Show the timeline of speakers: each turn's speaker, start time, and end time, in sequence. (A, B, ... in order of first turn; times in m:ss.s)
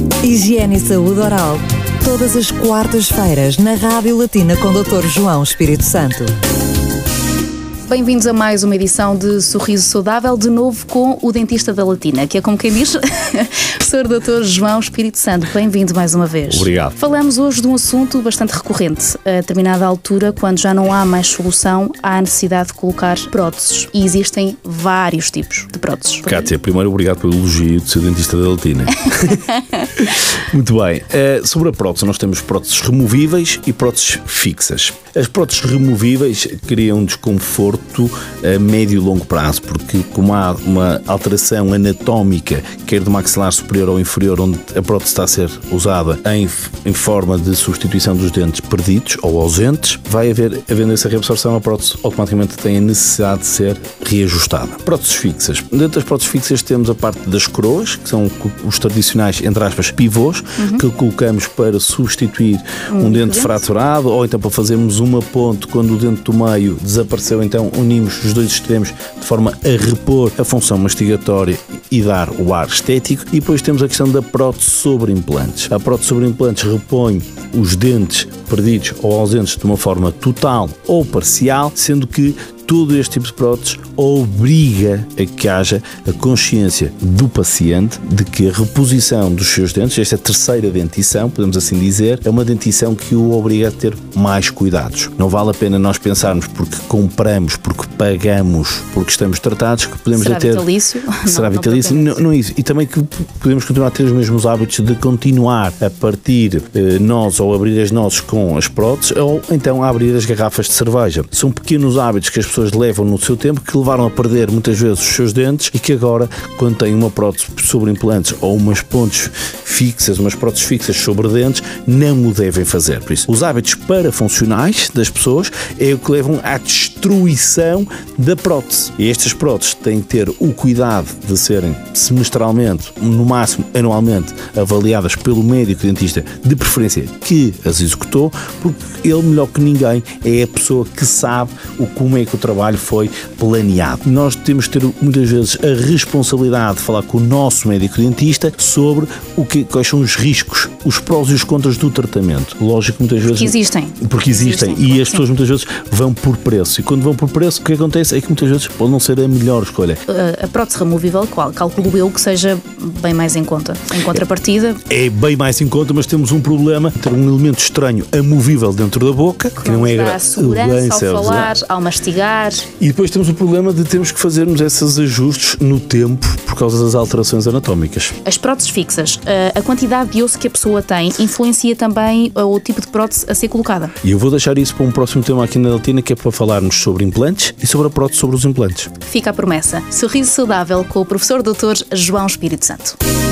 0:00.2-0:06.3 A
0:07.9-0:26.5 B
0:16.5-0:17.0 C
0:26.3-1:40.7 C
0:29.3-0:29.8 B
1:00.6-1:00.8 B
1:02.9-1:03.6 B
1:40.1-1:42.2 B
1:41.3-2:40.0 C
2:33.3-2:35.2 B
2:40.1-2:44.8 B
2:44.9-2:51.6 C
2:49.6-2:52.7 B
2:52.8-2:58.2 C
2:58.2-3:04.0 B
3:04.0-3:08.9 C
3:09.1-3:13.0 B